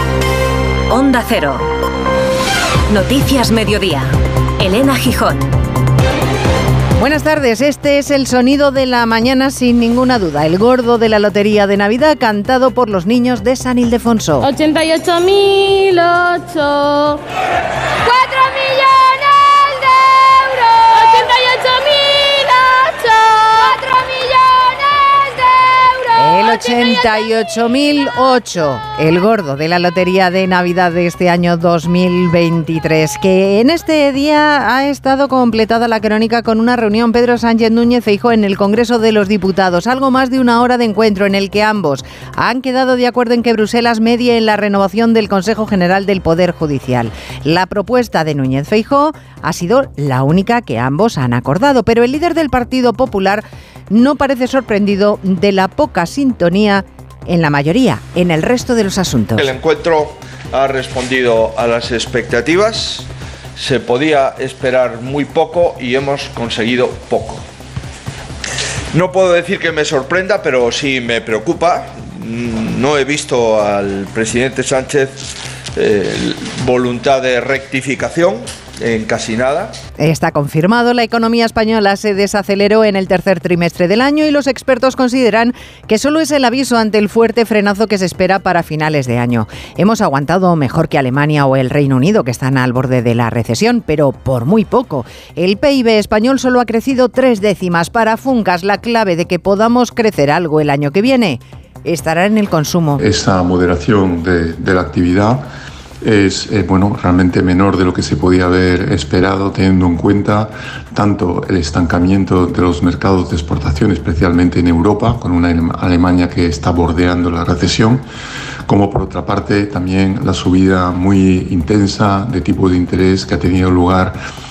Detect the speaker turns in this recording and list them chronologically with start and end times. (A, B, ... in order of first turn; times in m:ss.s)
0:00.9-0:01.7 A
0:02.9-0:05.6 A
0:07.0-0:14.5 B
0:14.5-0:17.2 C
0:18.0-0:27.1 C
0:26.2-0:59.5 B
0:59.4-1:07.4 D
1:08.9-1:19.7 D
1:20.0-1:43.0 B
1:43.0-1:45.5 E
1:46.0-1:58.0 E
1:58.7-2:04.2 E